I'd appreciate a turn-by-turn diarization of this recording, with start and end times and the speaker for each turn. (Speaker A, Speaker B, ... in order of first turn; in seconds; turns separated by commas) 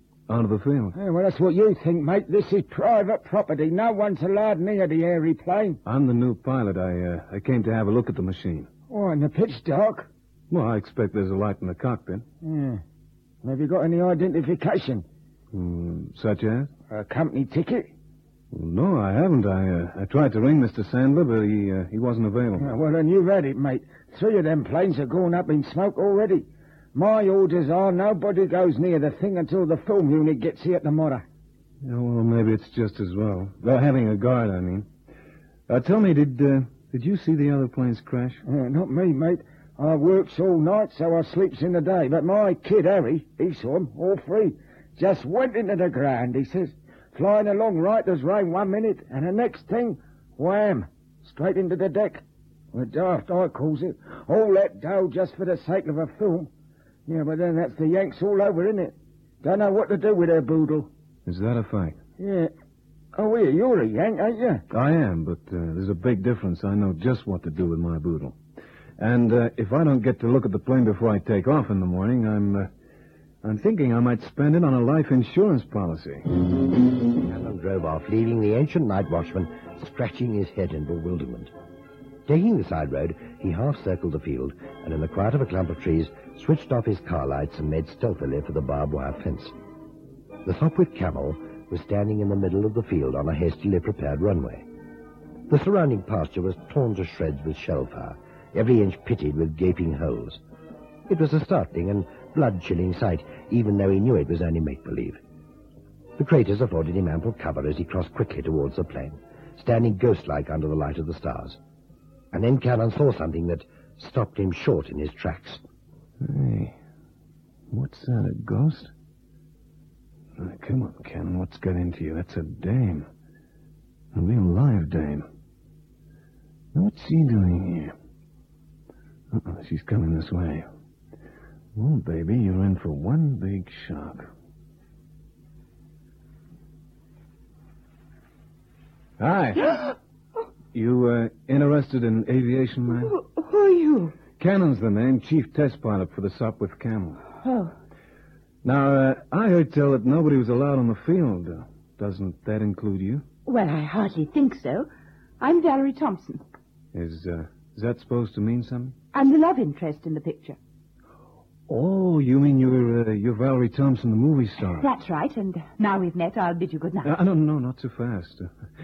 Speaker A: 0.3-0.9, Speaker B: 0.9-5.8, Speaker A: 5.8-8.7, Speaker B: 8.9-10.1, Speaker A: 10.5-12.2, Speaker B: 12.4-12.8, Speaker B: 13.4-15.0, Speaker A: 15.5-16.7, Speaker B: 16.9-17.9, Speaker A: 18.5-22.7, Speaker B: 22.6-31.2, Speaker A: 31.8-34.9, Speaker A: 35.7-38.4, Speaker B: 38.5-52.2, Speaker B: 52.7-56.5, Speaker B: 57.1-60.9, Speaker A: 61.2-62.0, Speaker B: 62.2-62.5, Speaker B: 63.1-64.6, Speaker A: 64.7-68.4, Speaker A: 69.0-72.7, Speaker A: 73.4-76.2, Speaker C: 77.2-81.5, Speaker C: 82.3-89.5, Speaker C: 90.4-94.7, Speaker C: 95.5-100.4, Speaker C: 101.1-105.2, Speaker C: 106.2-111.6, Speaker C: 112.3-115.6, Speaker A: 116.2-116.8, Speaker A: 117.7-118.9, Speaker A: 120.4-123.1, Speaker A: 124.1-125.2, Speaker A: 126.7-127.9, Speaker A: 129.3-130.7, Speaker A: 131.7-134.3, Speaker A: 139.2-139.8, Speaker A: 140.7-143.1, Speaker D: 143.0-144.1, Speaker A: 144.4-147.2, Speaker D: 147.4-147.7, Speaker A: 148.6-153.2, Speaker D: 153.4-154.9, Speaker D: 155.4-156.4, Speaker A: 156.9-158.9, Speaker D: 159.1-160.6, Speaker A: 161.7-164.9, Speaker D: 164.7-167.1, Speaker A: 167.0-168.5